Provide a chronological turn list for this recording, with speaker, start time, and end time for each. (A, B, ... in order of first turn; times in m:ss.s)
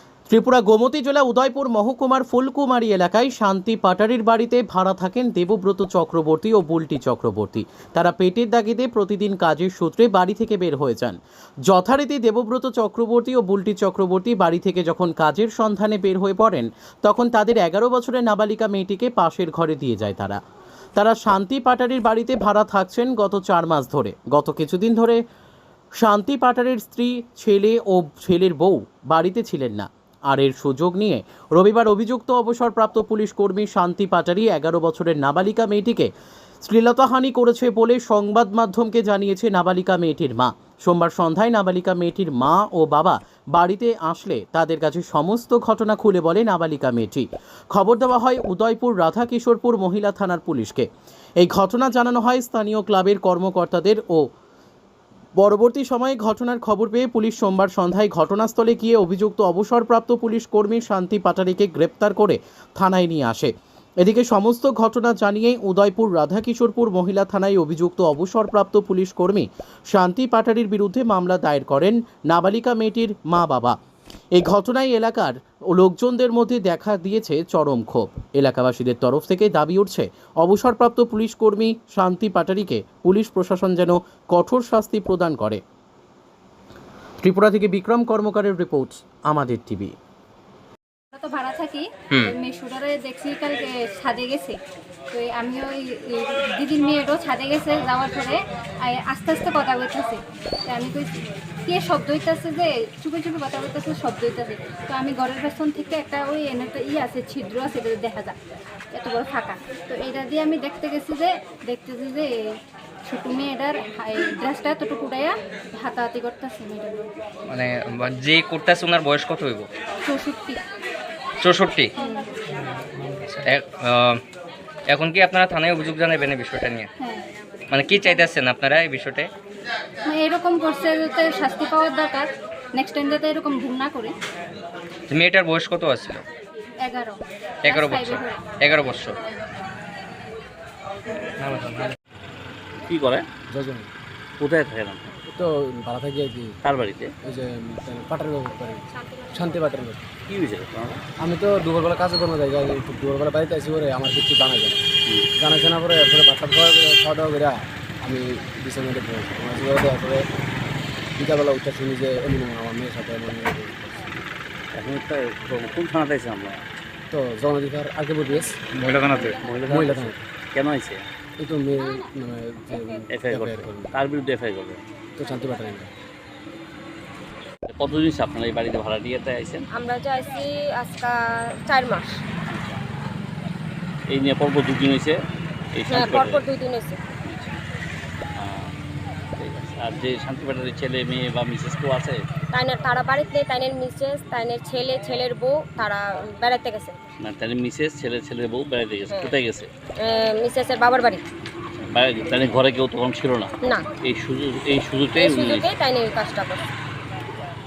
0:00.3-0:20.4 A
0:21.0-0:25.2 A
0:26.0-0:36.1 A
0:36.6-0:50.9 A
0:51.4-0:54.2 A
0:55.4-1:13.8 A
1:14.4-1:25.6 A
1:27.2-1:29.9 A
1:31.1-1:34.6 B
1:35.1-1:48.4 B
1:48.9-1:52.3 B
1:53.0-1:57.1 B
1:57.5-1:59.7 C
2:00.0-2:00.6 B
2:01.4-2:01.9 C
2:02.0-2:02.3 B
2:02.6-2:04.2 C
2:04.9-2:06.9 C
2:07.0-2:07.2 B
2:07.7-2:09.3 C
2:07.9-2:08.3 B
2:10.0-2:14.1 B
2:15.1-2:16.2 C
2:16.8-2:18.4 B
2:17.6-2:19.2 C
2:21.4-2:21.9 C
2:22.9-2:23.2 D
2:23.5-2:23.9 E
2:24.4-2:25.0 D
2:25.3-2:26.6 E
2:26.6-2:27.1 D
2:27.2-2:30.1 E
2:28.9-2:29.6 F
2:30.3-2:31.0 D
2:31.2-2:34.8 E
2:35.4-2:40.3 E
2:41.2-2:44.1 E
2:44.7-2:46.6 D
2:47.1-2:50.2 E
2:49.0-2:51.0 D
2:51.4-2:54.0 E
2:53.1-2:54.8 D
2:55.2-2:55.9 E
2:57.7-2:59.7 D
2:59.7-3:02.2 F
3:02.5-3:02.8 D
3:04.1-3:05.2 D
3:05.7-3:06.4 D
3:05.9-3:07.0 F
3:07.2-3:07.6 D
3:08.4-3:08.7 D
3:09.4-3:12.2 D
3:12.5-3:17.0 F
3:17.2-3:19.7 D
3:19.1-3:19.4 F
3:20.0-3:21.2 F
3:21.7-3:25.7 D
3:23.6-3:23.9 F
3:25.2-3:26.6 F